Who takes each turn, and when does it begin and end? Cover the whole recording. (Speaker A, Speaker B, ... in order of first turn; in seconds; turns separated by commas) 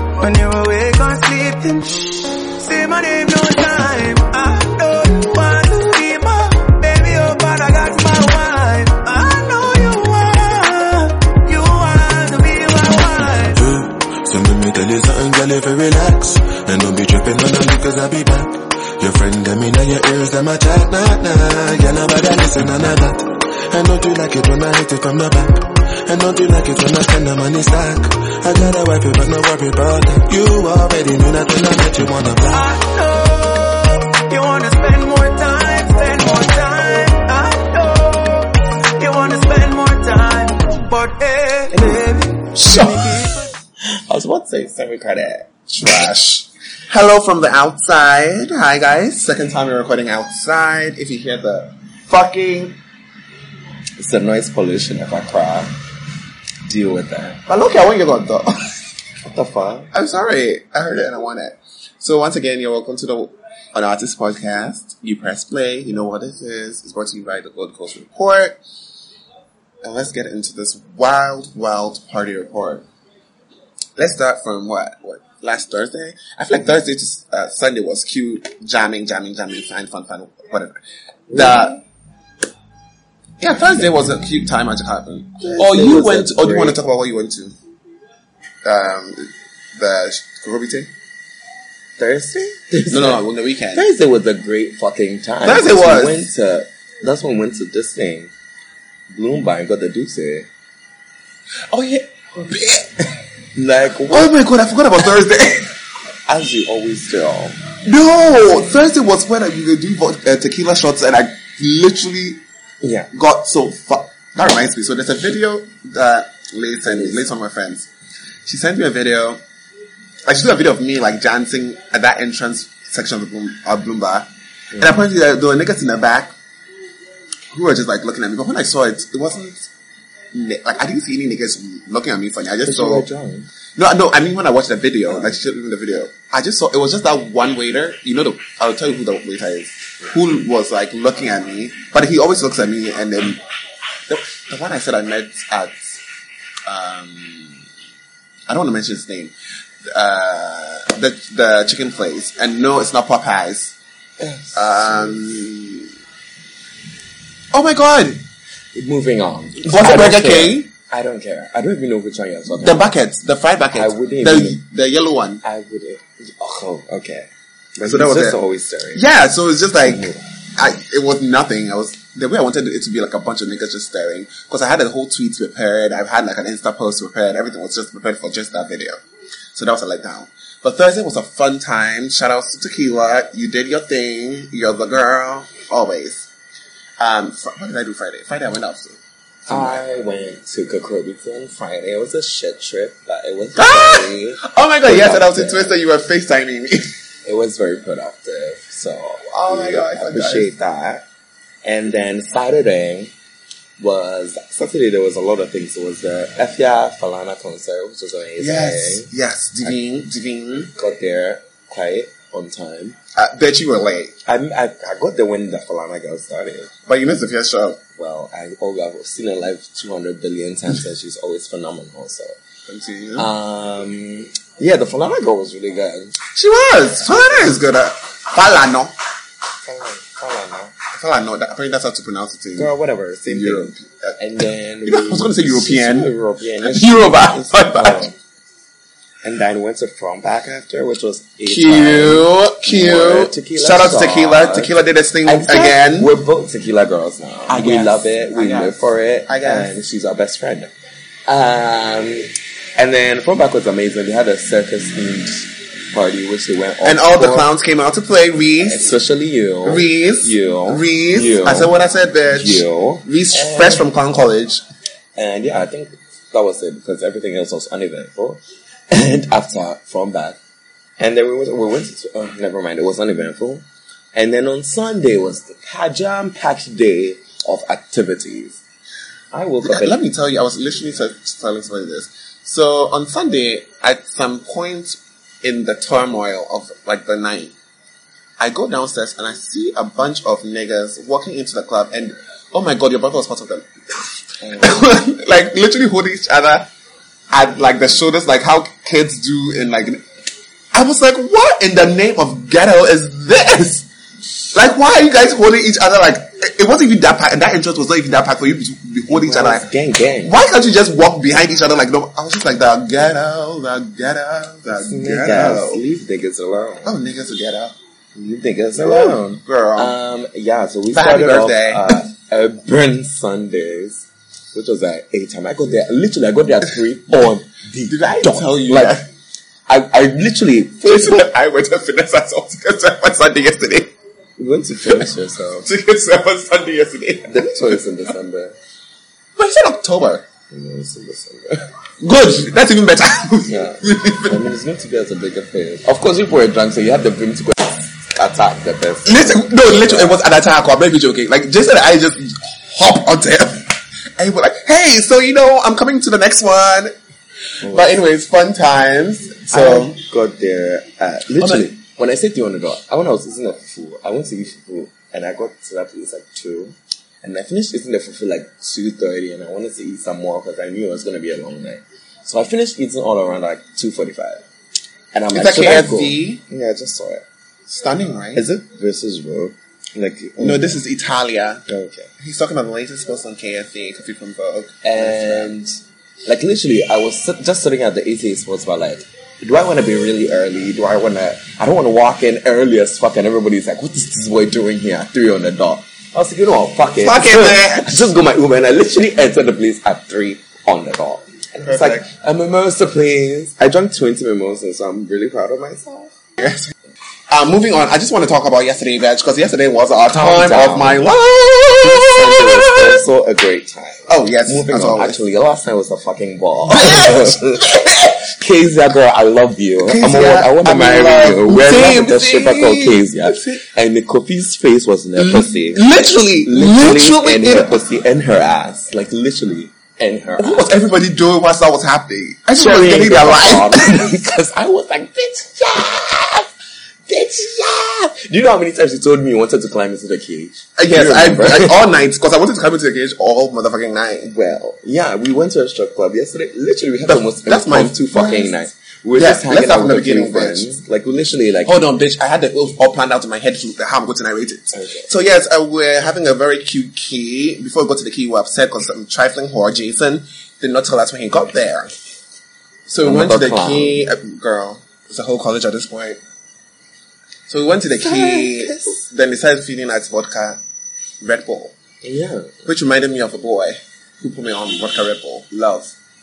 Speaker A: 0.2-13.6, Speaker B: 13.6-32.7, Speaker A: 32.5-43.5, Speaker C: 42.6-42.9, Speaker D: 42.7-43.0, Speaker D: 43.8-45.5, Speaker C: 45.7-52.8, Speaker D: 54.0-55.7, Speaker D: 56.7-57.4, Speaker C: 57.5-58.8, Speaker D: 59.2-59.9, Speaker C: 59.9-68.6, Speaker C: 69.8-72.8, Speaker C: 74.0-80.8, Speaker D: 81.3-81.7, Speaker C: 81.3-81.8, Speaker C: 83.4-87.5, Speaker D: 85.4-86.8, Speaker C: 88.6-90.9, Speaker D: 92.0-98.3, Speaker C: 92.9-93.9, Speaker C: 95.4-96.3, Speaker D: 99.1-100.5, Speaker C: 101.7-103.0, Speaker D: 103.5-104.4, Speaker C: 104.1-105.7, Speaker D: 106.3-107.6, Speaker C: 107.8-112.4, Speaker D: 112.8-113.1, Speaker C: 113.1-117.9, Speaker D: 116.9-117.2, Speaker C: 118.5-119.4, Speaker C: 120.3-126.3, Speaker C: 127.5-129.7, Speaker C: 130.3-133.1, Speaker D: 132.7-133.5, Speaker C: 133.8-143.4, Speaker C: 144.1-146.0, Speaker C: 146.7-147.6, Speaker C: 148.5-149.3, Speaker C: 149.9-153.7, Speaker D: 154.2-155.1, Speaker C: 154.5-155.9, Speaker C: 157.5-158.2, Speaker D: 158.8-162.9, Speaker C: 159.6-160.7, Speaker C: 162.6-165.4, Speaker D: 163.7-164.6, Speaker D: 165.4-169.0, Speaker C: 167.8-168.4, Speaker C: 168.9-179.0, Speaker D: 169.8-170.2, Speaker C: 179.5-186.3, Speaker C: 187.0-189.8, Speaker D: 189.5-195.7, Speaker C: 193.6-196.9, Speaker D: 197.2-201.1, Speaker C: 199.3-200.5, Speaker D: 201.6-203.1, Speaker D: 203.8-209.1, Speaker C: 208.4-210.7, Speaker D: 210.8-212.9, Speaker C: 213.1-214.1, Speaker D: 214.2-216.7, Speaker C: 216.9-217.8, Speaker D: 217.9-222.4, Speaker C: 222.7-223.3, Speaker D: 223.2-226.2, Speaker C: 226.3-228.9, Speaker D: 227.1-227.5, Speaker D: 229.6-230.8, Speaker C: 230.9-232.7, Speaker D: 232.6-238.1, Speaker C: 233.3-234.2, Speaker C: 234.8-236.1, Speaker C: 236.6-238.1, Speaker D: 239.2-244.7, Speaker C: 241.4-246.1, Speaker D: 245.2-250.7, Speaker C: 247.5-249.8, Speaker D: 251.3-257.5, Speaker C: 256.8-258.8, Speaker D: 258.6-261.7, Speaker C: 259.6-264.6, Speaker D: 262.3-263.8, Speaker D: 265.1-270.4, Speaker D: 271.0-278.6, Speaker D: 279.3-280.0, Speaker C: 279.6-287.5, Speaker C: 288.4-296.7, Speaker D: 294.4-294.8, Speaker C: 297.3-300.0, Speaker C: 300.7-303.9, Speaker C: 304.5-309.7, Speaker D: 309.1-310.3, Speaker C: 310.2-315.8, Speaker D: 314.7-317.0, Speaker C: 316.8-317.8, Speaker D: 318.1-329.0, Speaker C: 318.8-319.9, Speaker C: 320.9-321.9, Speaker C: 327.9-329.0, Speaker D: 329.7-331.3, Speaker C: 330.8-333.9, Speaker D: 334.4-335.7, Speaker C: 335.6-337.8, Speaker D: 337.3-338.5, Speaker C: 339.4-340.2, Speaker D: 340.5-341.6, Speaker C: 342.0-344.4, Speaker D: 343.5-350.2, Speaker C: 349.0-356.9, Speaker D: 357.6-357.9, Speaker C: 357.6-360.0, Speaker D: 359.5-374.4, Speaker C: 361.4-361.7, Speaker D: 375.1-377.2, Speaker C: 375.3-376.4, Speaker C: 377.7-378.4, Speaker D: 378.3-380.6, Speaker C: 380.4-381.6, Speaker D: 381.7-382.1, Speaker C: 382.2-385.5, Speaker D: 384.8-406.1, Speaker C: 397.0-398.1, Speaker C: 401.6-402.0, Speaker C: 406.4-406.7, Speaker C: 407.3-413.0, Speaker D: 410.1-411.1, Speaker D: 411.8-430.7, Speaker C: 414.1-415.2, Speaker C: 416.7-417.8, Speaker C: 419.8-423.6, Speaker C: 425.1-427.8, Speaker C: 430.4-434.1, Speaker D: 432.5-436.5, Speaker D: 437.1-441.8, Speaker C: 440.8-444.3, Speaker D: 444.2-451.8, Speaker C: 447.1-448.5, Speaker C: 449.1-450.7, Speaker C: 451.6-461.9, Speaker D: 454.7-455.1, Speaker C: 462.9-466.2, Speaker D: 463.0-464.0, Speaker C: 467.5-470.6, Speaker D: 468.0-469.0, Speaker C: 471.2-471.7, Speaker D: 472.0-472.6, Speaker C: 472.6-475.9